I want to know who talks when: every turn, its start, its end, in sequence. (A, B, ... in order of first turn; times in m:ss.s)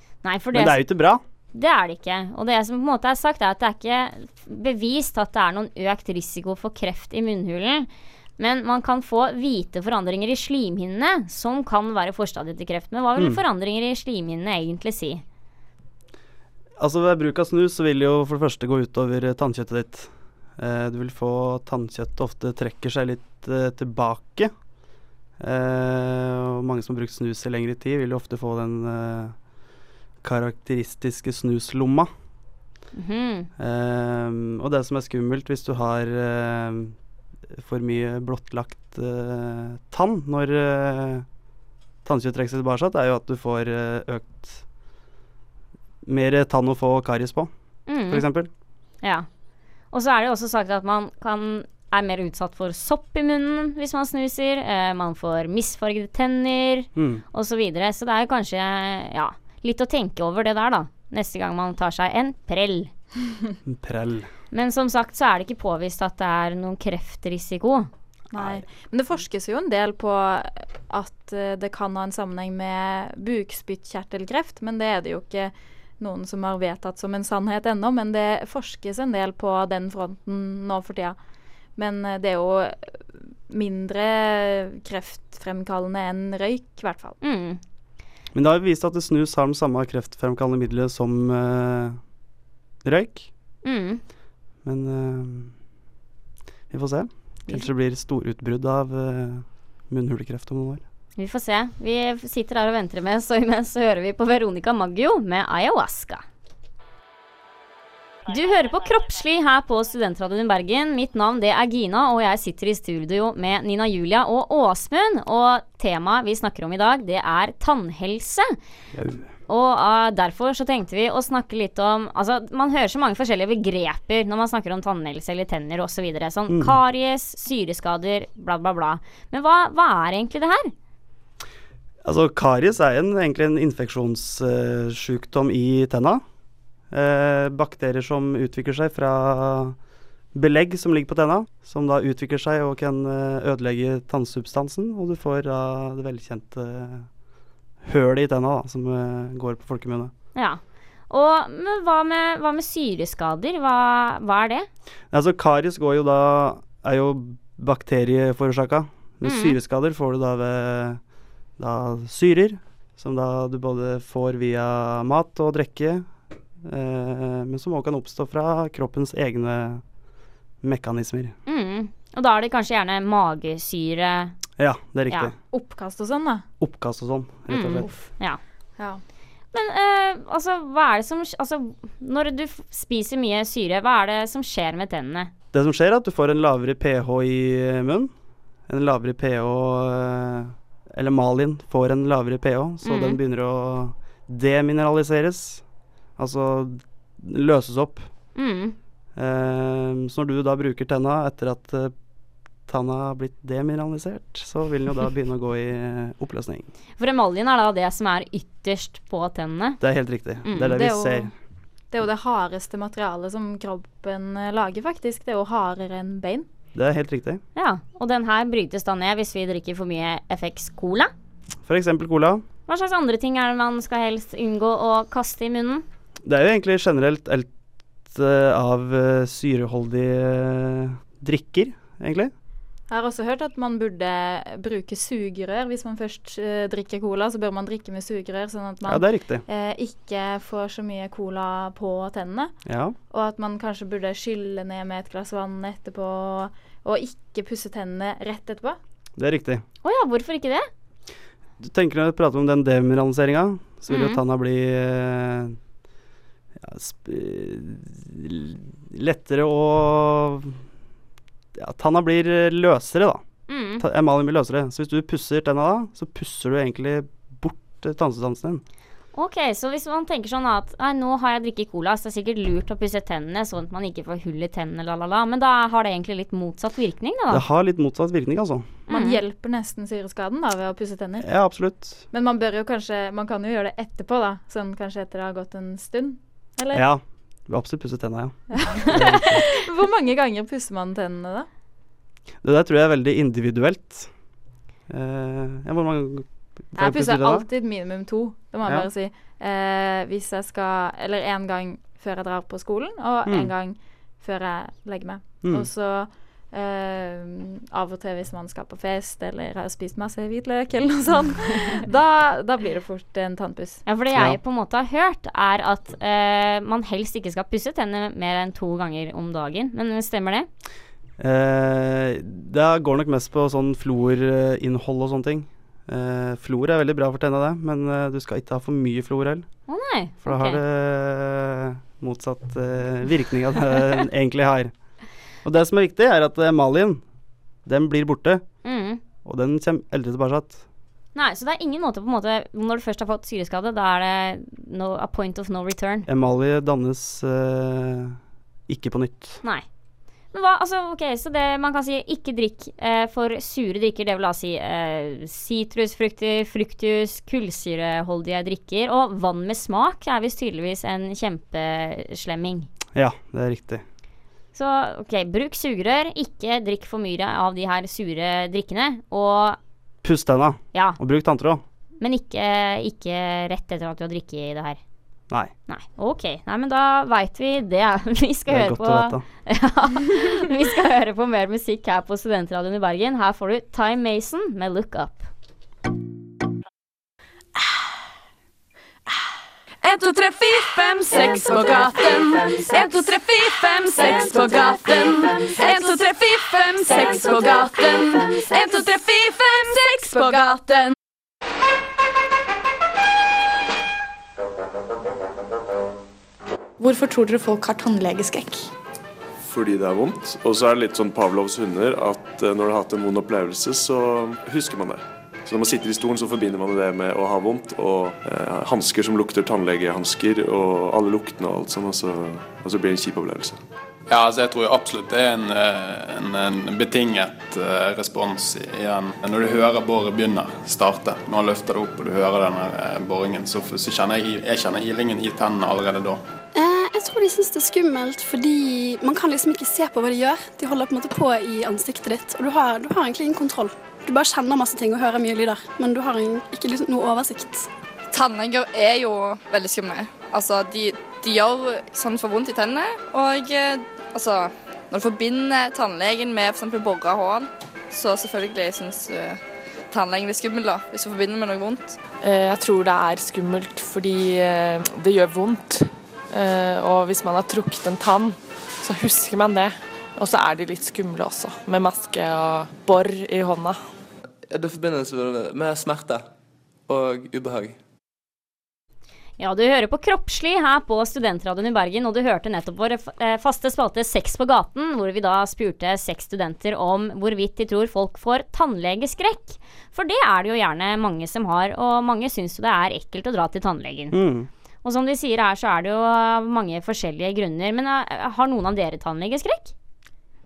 0:00.2-0:00.8 A
0:00.5-0:01.2 B
0:01.5-0:07.9 A
0:08.4-0:15.2 A
0:16.8-0:24.5 B
0:25.4-0:29.4 B
0:30.2-0:32.1 B
0:32.9-0:33.5 A
0:33.6-0:37.0 B
0:37.5-0:41.3 B
0:42.0-0:44.6 B
0:46.0-0:47.5 B
0:47.9-0:48.3 A
0:48.1-0:48.5 B
0:49.0-0:49.3 A
0:49.9-1:02.9 A
0:57.0-0:57.2 B
1:03.7-1:04.3 B
1:04.5-1:07.9 A
1:08.3-1:21.2 C
1:08.3-1:08.6 B
1:21.8-1:27.2 C
1:27.2-1:27.6 A
1:28.3-1:32.0 B
1:32.8-1:33.3 B
1:33.6-1:34.0 A
1:34.6-1:35.5 B
1:36.7-1:40.8 B
1:41.2-1:46.2 A
1:48.3-1:58.5 A
1:58.9-1:59.3 B
1:59.5-2:10.7 A
2:06.5-2:06.8 B
2:12.0-2:16.2 B
2:16.9-2:19.8 B
2:20.3-2:27.1 B
2:27.8-2:30.1 B
2:30.4-2:34.7 A
2:35.1-2:41.0 B
2:39.2-2:39.6 A
2:41.6-2:46.1 B
2:46.6-2:49.8 B
2:50.6-2:51.4 B
2:51.5-2:54.4 A
2:54.6-2:55.3 B
2:55.5-2:56.4 C
2:56.6-2:57.9 B
2:57.5-2:58.4 A
2:59.5-3:05.3 A
3:05.5-3:08.1 B
3:08.7-3:15.6 B
3:12.8-3:13.2 A
3:16.2-3:18.1 B
3:18.4-3:18.8 A
3:19.2-3:21.9 B
3:22.7-3:26.7 B
3:27.0-3:29.8 A
3:29.8-3:31.3 B
3:30.5-3:30.7 A
3:30.6-3:31.3 C
3:31.9-3:36.5 C
3:36.8-3:37.4 B
3:37.6-3:41.1 A
3:41.6-3:42.4 B
3:42.7-3:45.8 A
3:46.2-3:47.5 B
3:48.1-3:52.3 B
3:52.9-4:02.6 C
3:58.9-3:59.4 B
4:02.7-4:03.0 B
4:03.1-4:08.8 C
4:09.2-4:09.6 B
4:09.8-4:10.7 A
4:11.6-4:15.6 B
4:13.9-4:14.2 A
4:16.6-4:20.6 B
4:21.6-4:23.2 B
4:23.5-4:23.8 A
4:23.8-4:28.6 B
4:29.2-4:37.4 A
4:37.3-4:38.7 B
4:38.9-4:41.3 C
4:38.9-4:39.2 A
4:41.2-4:42.0 B
4:42.1-4:46.8 C
4:46.7-4:49.5 B
4:48.5-4:51.5 C
4:52.4-4:54.1 B
4:54.9-4:57.5 B
4:56.8-5:13.8 C
5:13.9-5:20.5 A
5:21.2-5:29.5 B
5:29.7-5:30.6 A
5:30.2-5:34.7 B
5:35.4-5:37.0 B
5:37.6-5:38.4 B
5:38.6-5:39.0 A
5:39.2-5:40.6 B
5:41.2-5:46.1 A
5:46.1-5:49.4 B
5:50.3-6:02.7 A
6:02.9-6:03.8 B
6:04.6-6:09.6 A
6:10.0-6:11.6 B
6:12.0-6:14.8 A
6:15.7-6:25.3 A
6:18.5-6:19.2 B
6:29.8-6:41.0 D
6:46.8-6:48.7 E
6:49.4-7:03.6 F
7:04.1-7:16.2 G
7:16.5-7:27.7 H
7:28.1-7:42.0 I
7:42.2-7:53.8 J
7:54.5-7:56.3 K
7:56.9-7:57.8 K
7:59.4-8:14.2 A
8:14.1-8:14.5 B
8:14.8-8:19.7 A